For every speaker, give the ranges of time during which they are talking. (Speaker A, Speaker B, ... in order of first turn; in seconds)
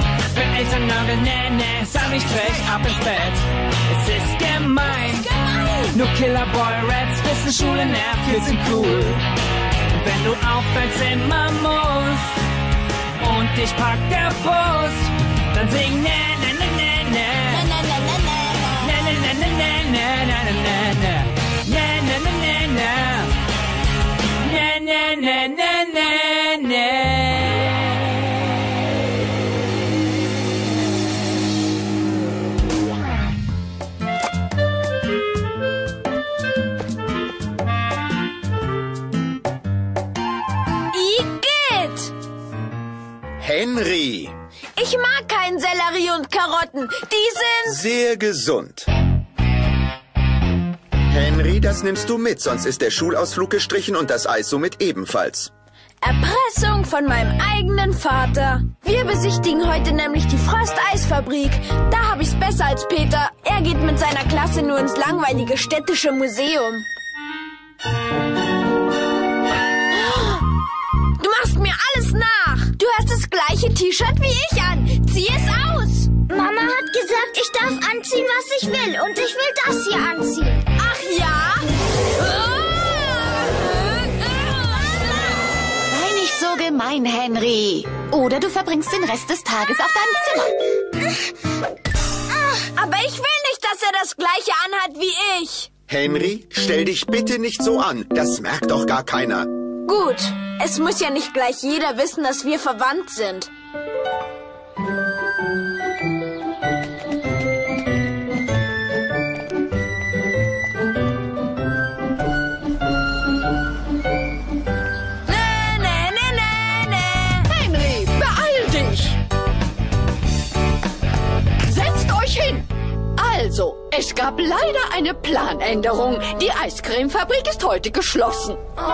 Speaker A: 0.2-5.3, 5.9-9.3, 9.9-12.4, 13.2-17.6, 18.8-23.3, 24.4-27.9
Speaker B: 5.4-5.8, 17.5-18.9, 40.9-42.1, 44.8-47.8, 56.0-66.9, 69.9-70.4, 71.2-76.1, 80.8-81.6, 82.2-85.2, 92.6-95.7, 99.8-103.5, 115.3-117.4
Speaker C: 43.4-44.3, 47.7-48.9, 51.1-55.5, 95.9-99.5
Speaker D: 76.3-80.6
Speaker E: 85.9-90.5
Speaker F: 117.5-119.2, 121.7-122.6, 123.2-128.6